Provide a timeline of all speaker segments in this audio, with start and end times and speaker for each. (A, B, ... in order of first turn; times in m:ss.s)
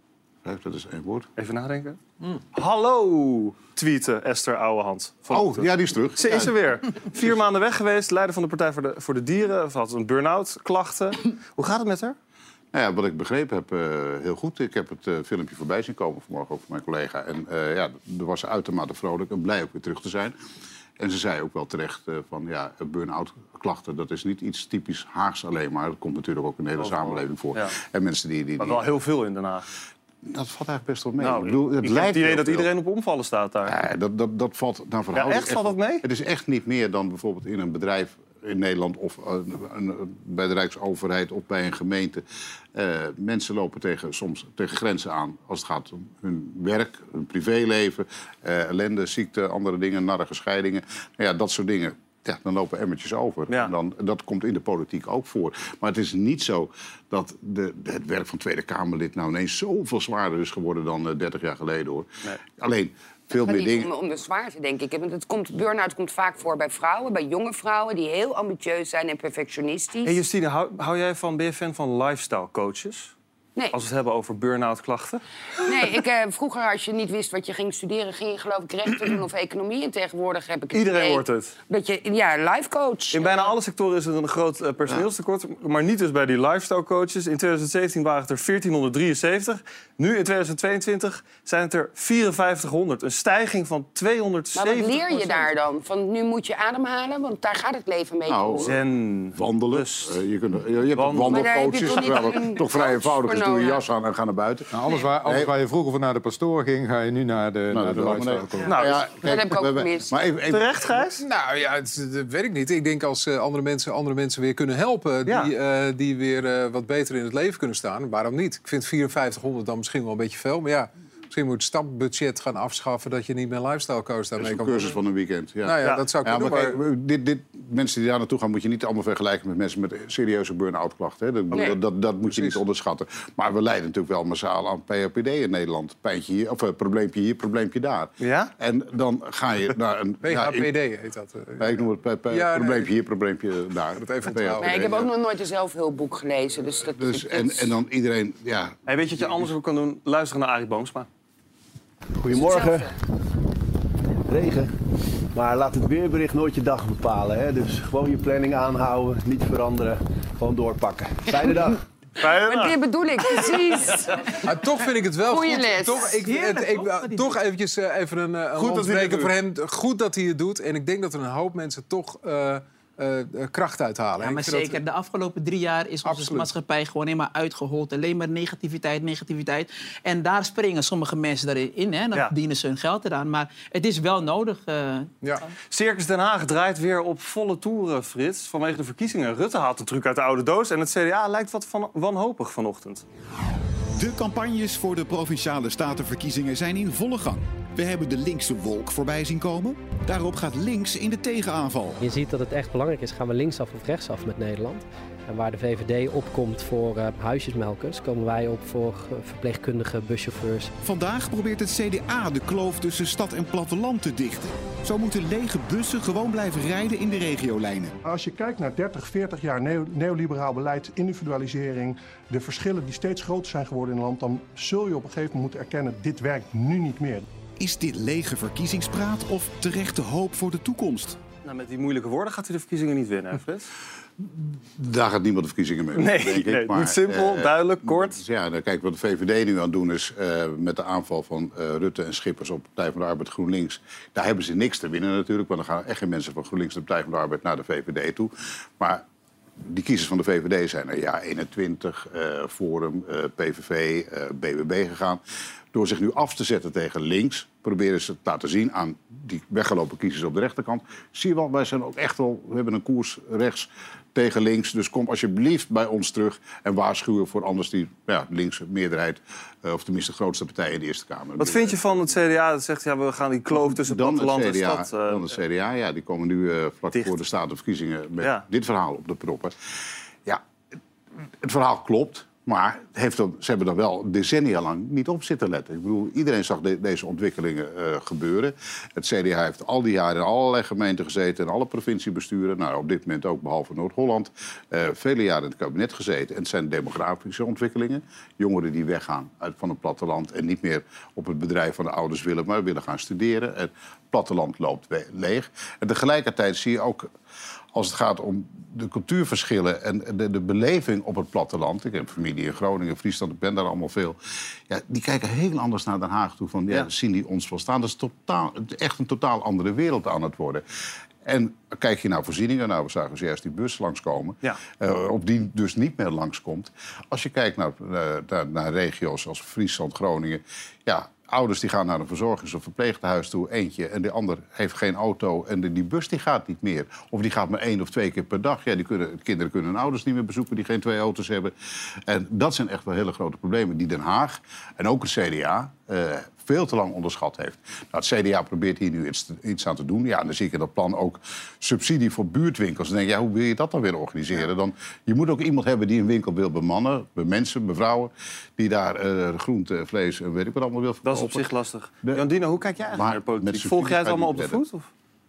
0:00.4-0:01.3 A
0:01.4-0:02.0 B
0:02.5-0:12.2 B
0:05.3-0:06.5 A
0:12.7-0:20.3 A
0:21.0-0:28.9 A
0:26.8-0:27.8 B
0:28.6-0:29.7 B
0:30.2-0:32.7 A
0:31.2-0:33.8 B
0:33.7-0:42.2 A
0:35.1-0:36.0 B
0:42.7-1:03.9 A
0:53.5-0:53.7 B
1:03.4-1:10.2 C
1:10.0-1:13.1 B
1:13.7-1:15.2 B
1:15.6-1:23.4 C
1:20.7-1:21.5 B
1:23.1-1:35.5 B
1:34.6-1:38.7 C
1:38.2-1:38.8 A
1:38.6-1:40.2 B
1:39.3-1:44.7 A
1:40.9-1:42.4 B
1:41.2-1:43.8 C
1:44.7-1:48.8 D
1:45.2-1:45.5 A
1:47.7-1:51.0 A
1:48.6-1:49.0 B
1:49.2-1:50.1 C
1:50.5-1:51.2 B
1:51.2-2:05.0 E
1:55.2-1:55.5 B
2:04.4-2:20.7 A
2:05.6-2:06.8 E
2:05.8-2:06.1 B
2:12.3-2:12.6 E
2:18.2-2:18.5 B
2:20.2-2:22.9 E
2:21.6-2:25.1 A
2:24.0-2:24.8 E
2:24.6-2:27.7 C
2:26.8-2:29.4 A
2:28.9-2:31.1 B
2:32.2-2:32.9 F
2:32.3-2:32.9 C
2:34.3-2:34.7 F
2:35.3-2:41.8 F
2:42.2-2:42.8 B
2:42.4-2:44.3 C
2:44.4-2:54.8 E
2:45.3-2:46.2 C
2:46.2-2:47.3 G
2:48.6-2:49.3 B
2:54.2-3:05.1 G
2:56.0-2:56.5 E
3:05.7-3:13.0 B
3:14.0-3:22.0 H
3:22.0-3:30.7 I
3:30.8-3:37.9 H
3:38.0-3:47.2 J
3:47.6-3:51.2 H
3:51.4-3:53.7 B
3:54.2-4:09.0 A
3:55.9-3:58.2 B
4:09.6-4:15.2 A
4:15.7-4:32.0 A
4:31.4-4:35.3 B
4:33.5-4:39.5 A
4:38.2-4:38.4 B
4:41.4-5:07.1 A
5:07.7-5:14.2 A
5:14.7-5:20.6 A
5:21.2-5:41.5 A
5:42.1-6:01.5 A
6:01.0-6:04.9 B
6:02.8-6:04.6 A